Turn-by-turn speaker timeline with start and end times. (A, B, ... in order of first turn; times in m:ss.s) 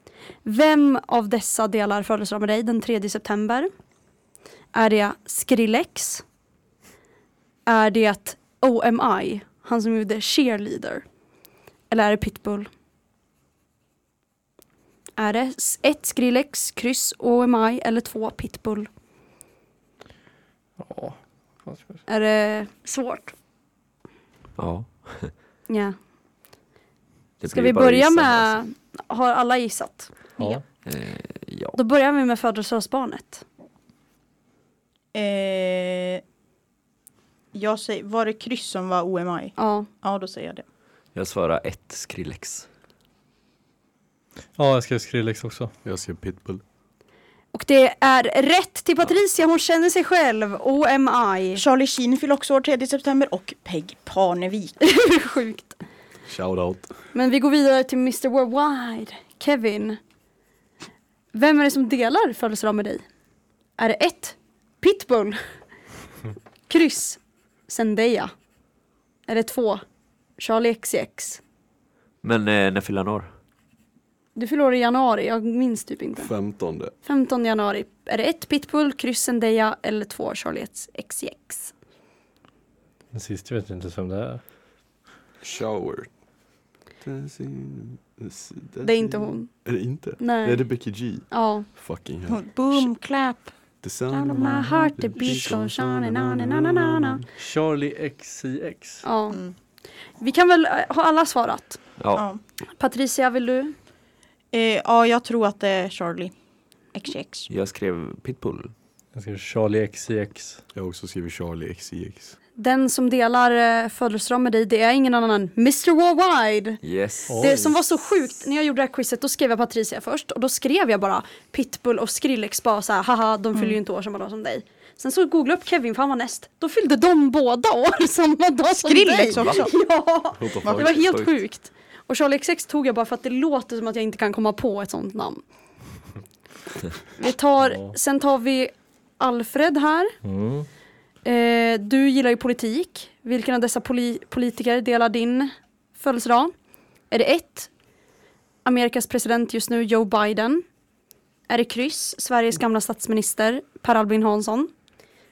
0:00.4-0:03.7 A
0:04.7-0:06.2 A
0:07.7-0:11.0 A
0:11.9-0:12.7 A
0:15.2-0:18.9 A
0:20.8-0:22.0 B
0:22.1-0:23.3 A
0:24.6-0:25.3 C
0:25.7-0:26.0 A
0:27.4-0:28.5 C
0:27.4-0:30.6 A
0:30.4-0:30.6 B
0:30.8-0:31.8 C
0:31.7-0:33.4 A
0:35.1-0:36.2 D
0:37.5-0:40.6 D
0:39.6-0:39.9 A
0:41.1-0:42.6 C
0:44.6-0:45.7 B
0:45.8-0:46.6 E
0:47.5-0:51.6 A
0:51.5-0:54.8 D
0:54.8-0:55.8 A
0:56.3-0:56.9 E
0:57.1-1:00.0 A
1:01.3-1:03.0 A
1:03.8-1:05.4 A
1:06.7-1:08.3 A
1:09.3-1:09.8 A
1:10.4-1:11.4 A
1:12.2-1:13.3 C
1:14.4-1:16.3 A
1:16.2-1:16.9 E
1:17.0-1:21.7 A
1:23.1-1:24.4 B
1:25.4-1:26.1 E
1:27.0-1:32.4 E
1:28.8-1:29.5 A
1:30.2-1:30.6 A
1:31.3-1:31.7 A
1:32.3-1:33.5 D
1:33.8-1:37.2 E
1:34.1-1:34.7 D
1:34.3-1:37.2 A
1:37.4-1:39.0 B
1:39.0-1:39.4 A
1:40.2-1:41.8 A
1:42.0-1:42.2 C
1:42.1-1:42.4 D
1:42.8-1:43.7 A
1:44.5-1:46.3 D
1:46.9-1:47.5 D
1:47.5-1:48.7 C
1:49.1-1:50.6 B
1:50.7-1:52.4 E
1:52.6-1:56.8 A
1:56.8-1:57.7 C
1:57.3-1:57.7 B
1:57.4-2:15.4 A
2:08.8-2:09.7 D
2:09.3-2:09.6 C
2:10.4-2:11.0 E
2:10.6-2:10.9 D
2:10.8-2:11.3 C
2:17.2-2:20.2 A
2:17.6-2:17.9 B
2:20.2-2:20.7 B
2:21.2-2:26.5 A
2:27.1-2:27.7 A
2:28.6-2:30.6 A
2:31.5-2:34.7 A